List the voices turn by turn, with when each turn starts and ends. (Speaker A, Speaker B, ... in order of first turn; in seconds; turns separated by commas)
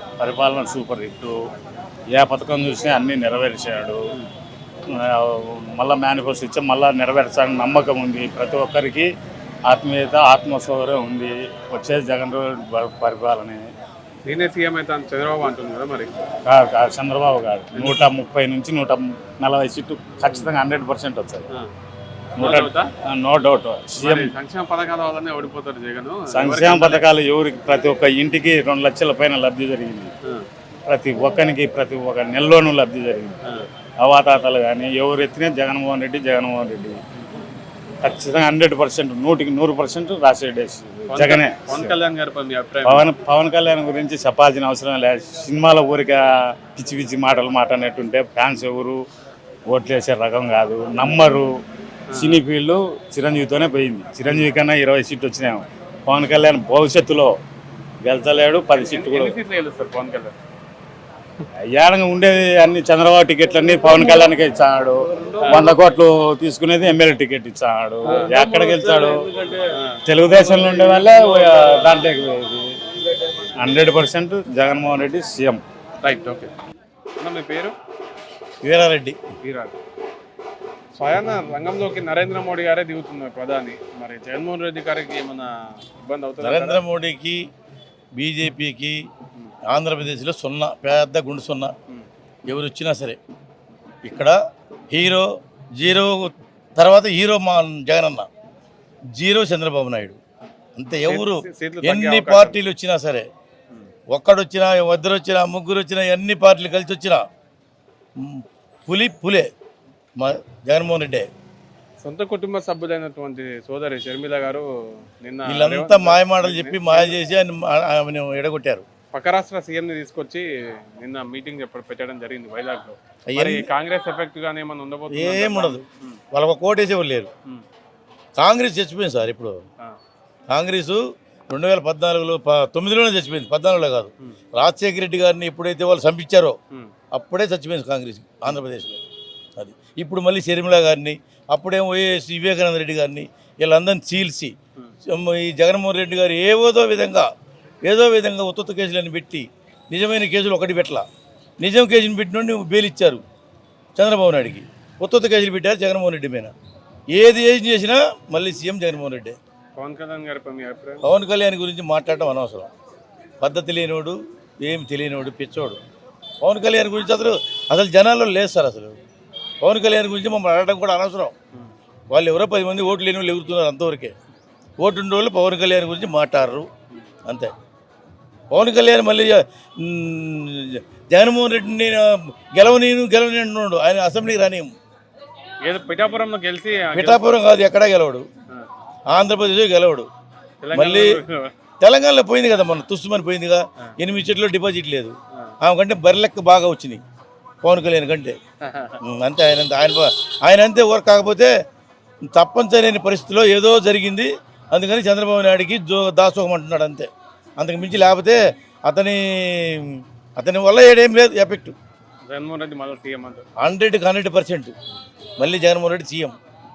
Speaker A: 0.2-1.4, Speaker A: 2.1-4.0, Speaker A: 4.9-9.1, Speaker A: 9.7-13.7, Speaker B: 14.2-16.1, Speaker A: 16.4-21.5, Speaker B: 17.8-18.0, Speaker B: 22.4-22.9, Speaker A: 22.4-24.3, Speaker B: 24.0-27.1, Speaker A: 26.3-30.1, Speaker A: 30.9-33.4, Speaker A: 34.0-37.0, Speaker A: 38.0-41.9, Speaker B: 41.1-43.1, Speaker A: 42.8-49.0, Speaker A: 49.7-51.5, Speaker B: 52.1-52.4, Speaker A: 52.1-57.3, Speaker A: 58.0-59.4, Speaker B: 58.8-60.3, Speaker A: 61.6-69.5, Speaker B: 65.4-65.7, Speaker B: 68.0-68.5, Speaker B: 69.5-70.0, Speaker A: 70.0-72.7, Speaker B: 70.7-71.9, Speaker A: 73.6-75.6, Speaker B: 76.0-76.5, Speaker B: 77.2-77.8, Speaker C: 78.6-79.2, Speaker B: 79.4-79.7, Speaker B: 81.0-86.8, Speaker C: 86.4-87.4, Speaker C: 88.2-89.1, Speaker C: 89.7-91.7, Speaker C: 92.5-93.2, Speaker C: 94.0-94.3, Speaker C: 94.9-98.3, Speaker C: 99.2-100.2, Speaker C: 100.8-103.3, Speaker B: 101.0-102.6, Speaker C: 104.1-107.2, Speaker C: 108.2-109.5, Speaker C: 110.2-111.3, Speaker B: 112.0-114.7, Speaker B: 115.2-117.2, Speaker C: 115.5-118.8, Speaker B: 119.1-120.5, Speaker B: 121.0-126.2, Speaker C: 123.3-123.7, Speaker C: 125.1-125.8, Speaker C: 126.3-127.3, Speaker C: 128.4-129.6, Speaker C: 130.5-136.6, Speaker C: 137.1-139.0, Speaker C: 139.6-144.5, Speaker C: 145.1-147.3, Speaker C: 147.8-151.1, Speaker C: 151.6-153.2, Speaker C: 153.9-156.5, Speaker C: 157.1-159.3, Speaker B: 159.8-161.0, Speaker C: 161.0-162.7, Speaker C: 163.4-165.8, Speaker C: 166.4-168.9, Speaker C: 169.6-171.3, Speaker C: 172.1-174.1, Speaker C: 174.8-176.7, Speaker C: 178.5-184.7, Speaker B: 185.6-187.4, Speaker C: 186.9-188.2, Speaker C: 189.1-190.1, Speaker B: 190.6-191.5, Speaker C: 190.7-191.2, Speaker C: 191.8-197.0, Speaker C: 197.6-198.4, Speaker B: 198.6-199.0, Speaker C: 199.0-201.5, Speaker C: 202.3-211.8, Speaker B: 212.3-213.4, Speaker C: 213.6-214.7, Speaker C: 215.4-216.3